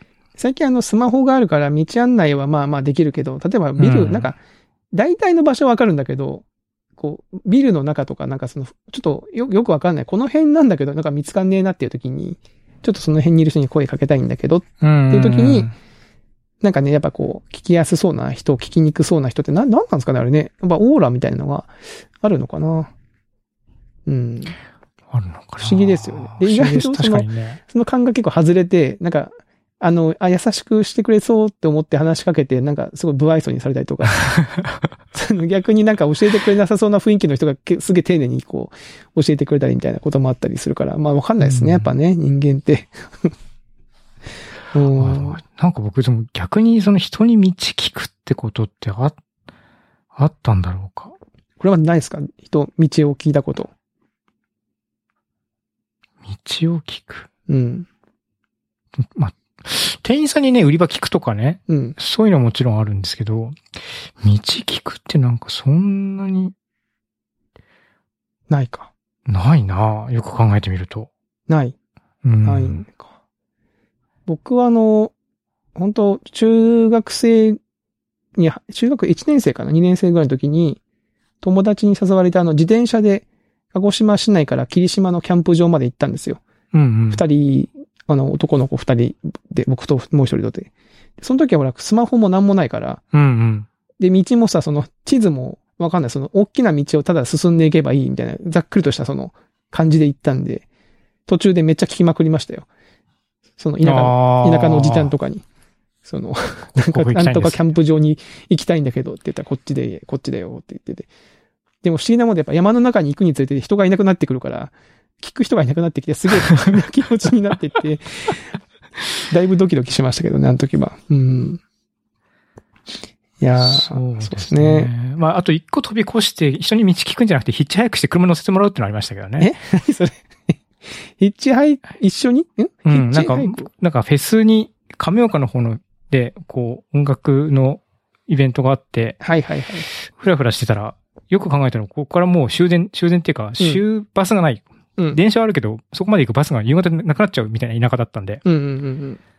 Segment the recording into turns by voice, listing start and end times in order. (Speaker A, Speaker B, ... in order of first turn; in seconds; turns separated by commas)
Speaker A: 0.4-4.4, Speaker B: 3.8-4.3, Speaker A: 4.9-6.4, Speaker A: 7.0-15.7, Speaker B: 14.8-15.7, Speaker A: 16.6-21.7, Speaker A: 22.2-22.9, Speaker A: 24.1-24.6, Speaker B: 25.1-27.6, Speaker A: 25.6-34.3, Speaker B: 34.3-34.8, Speaker A: 35.1-43.3, Speaker B: 41.4-41.9, Speaker A: 44.7-45.4, Speaker B: 44.9-49.2, Speaker B: 50.1-51.1, Speaker A: 51.6-53.7, Speaker B: 56.2-57.3, Speaker A: 57.5-57.9, Speaker B: 59.0-63.6, Speaker A: 61.7-62.0, Speaker B: 64.2-66.5, Speaker A: 68.5-68.9, Speaker B: 69.3-71.1, Speaker A: 71.5-71.8, Speaker B: 72.2-72.8, Speaker A: 72.4-73.1, Speaker A: 74.3-75.1, Speaker A: 75.7-77.6, Speaker A: 78.3-80.8, Speaker A: 81.4-86.4, Speaker B: 86.7-87.2, Speaker A: 87.1-93.0, Speaker B: 93.1-93.7, Speaker A: 94.0-100.7, Speaker A: 101.3-102.7, Speaker A: 103.6-105.4, Speaker B: 103.8-105.1, Speaker A: 106.0-111.1, Speaker B: 106.8-107.6, Speaker A: 111.8-118.5, Speaker A: 119.3-121.6, Speaker A: 123.4-124.9, Speaker B: 123.6-129.5, Speaker A: 129.4-130.2, Speaker A: 131.2-133.7, Speaker B: 132.8-139.2, Speaker A: 139.2-139.9, Speaker B: 140.0-148.4, Speaker A: 148.4-149.2